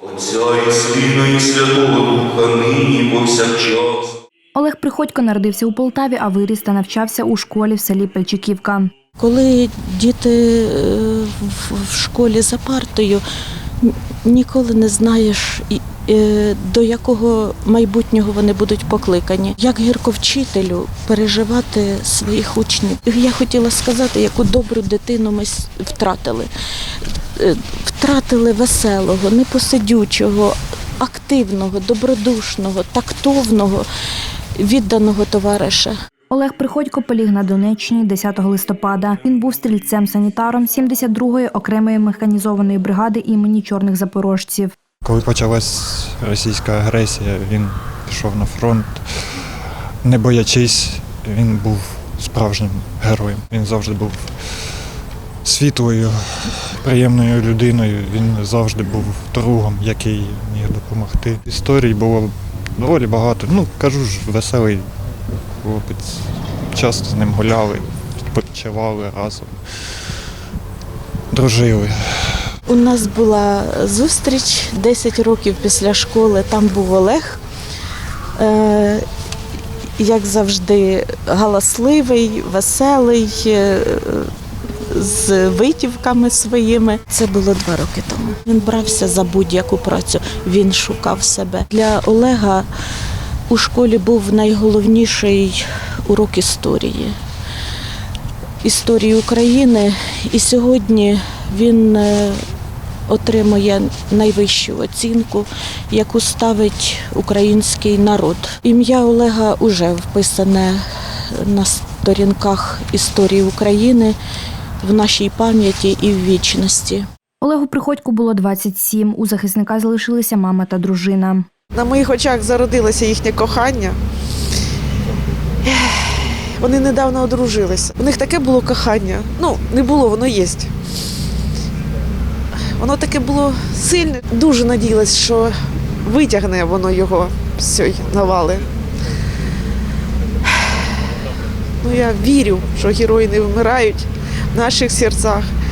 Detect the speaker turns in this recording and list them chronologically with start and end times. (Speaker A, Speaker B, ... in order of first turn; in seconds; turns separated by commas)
Speaker A: 0.1-4.0, Speaker B: 4.5-8.9, Speaker C: 9.2-13.2, Speaker C: 13.8-26.5, Speaker C: 27.4-33.9, Speaker C: 34.6-36.0, Speaker B: 36.3-44.8, Speaker D: 45.0-49.0, Speaker D: 50.0-54.3, Speaker D: 55.4-64.9, Speaker D: 65.6-70.1, Speaker D: 71.3-72.5, Speaker C: 72.7-77.4, Speaker C: 78.4-79.0, Speaker C: 80.0-84.3, Speaker C: 84.9-92.7, Speaker C: 93.5-97.2, Speaker C: 98.6-102.4, Speaker C: 103.1-114.2, Speaker C: 114.8-117.1, Speaker B: 117.4-121.5, Speaker E: 121.7-124.0, Speaker E: 125.6-130.7, Speaker E: 132.8-138.7, Speaker E: 141.8-145.5